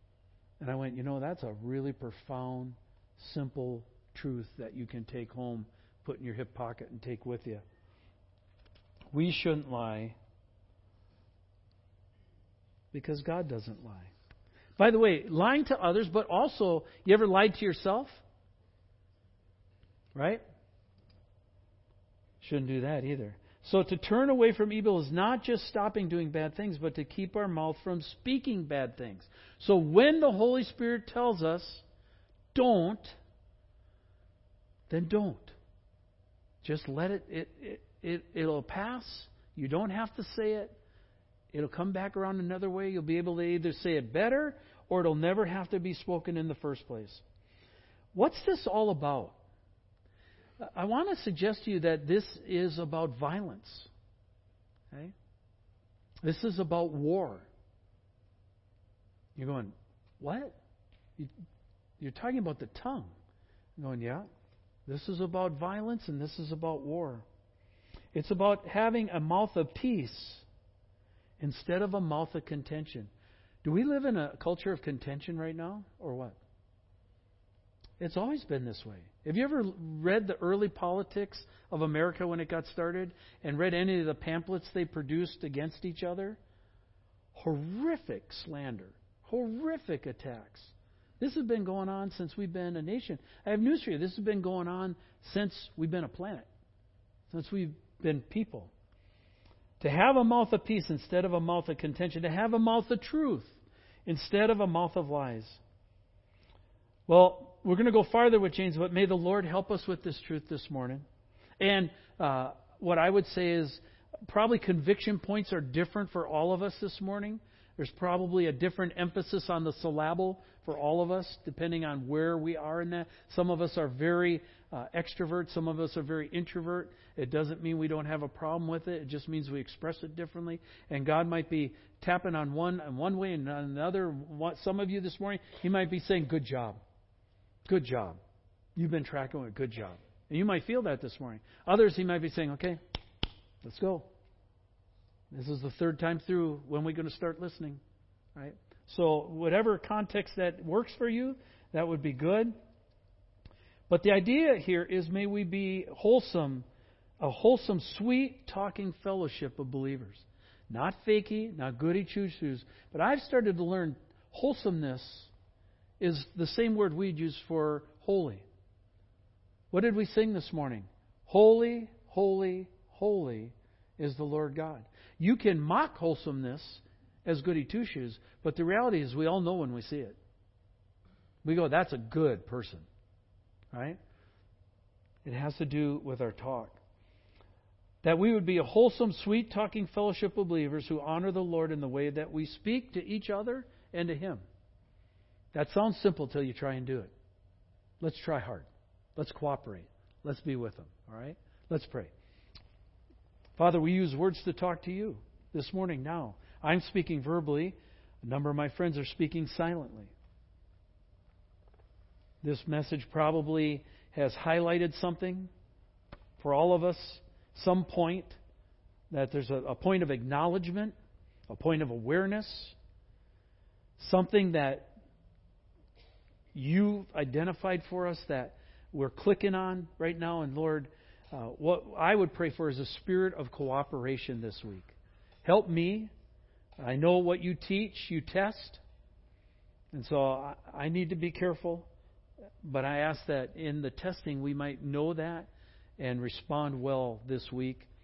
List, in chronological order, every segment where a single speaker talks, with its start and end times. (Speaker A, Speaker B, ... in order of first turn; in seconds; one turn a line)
Speaker A: 0.6-7.6
Speaker A: 9.1-10.2
Speaker A: 12.9-14.1
Speaker A: 14.8-18.2
Speaker A: 20.1-20.4
Speaker A: 22.4-31.8
Speaker A: 32.5-33.2
Speaker A: 34.9-35.5
Speaker A: 36.6-40.7
Speaker A: 41.5-47.2
Speaker A: 48.1-49.4
Speaker A: 50.6-53.9
Speaker A: 56.2-57.5
Speaker A: 59.4-60.5
Speaker A: 62.0-63.1
Speaker A: 63.8-64.3
Speaker A: 64.9-67.2
Speaker A: 68.1-70.4
Speaker A: 71.4-73.1
Speaker A: 73.6-76.4
Speaker A: 78.0-86.4
Speaker A: 87.3-96.5
Speaker A: 97.3-98.7
Speaker A: 99.8-105.6
Speaker A: 107.1-111.0
Speaker A: 111.6-136.8
Speaker A: 137.7-138.2
Speaker A: 138.8-142.8
Speaker A: 143.6-144.1
Speaker A: 145.3-147.8
Speaker A: 148.3-152.5
Speaker A: 153.9-156.7
Speaker A: 157.2-165.3
Speaker A: 166.0-168.4
Speaker A: 169.7-180.2
Speaker A: 181.4-182.8
Speaker A: 183.7-184.0
Speaker A: 185.2-186.8
Speaker A: 188.0-194.4
Speaker A: 195.5-197.1
Speaker A: 198.0-202.1
Speaker A: 203.6-210.1
Speaker A: 212.4-215.5
Speaker A: 216.4-218.4
Speaker A: 219.1-220.9
Speaker A: 221.5-222.8
Speaker A: 224.0-224.9
Speaker A: 226.5-236.1
Speaker A: 236.8-238.8
Speaker A: 239.9-241.9
Speaker A: 242.6-247.9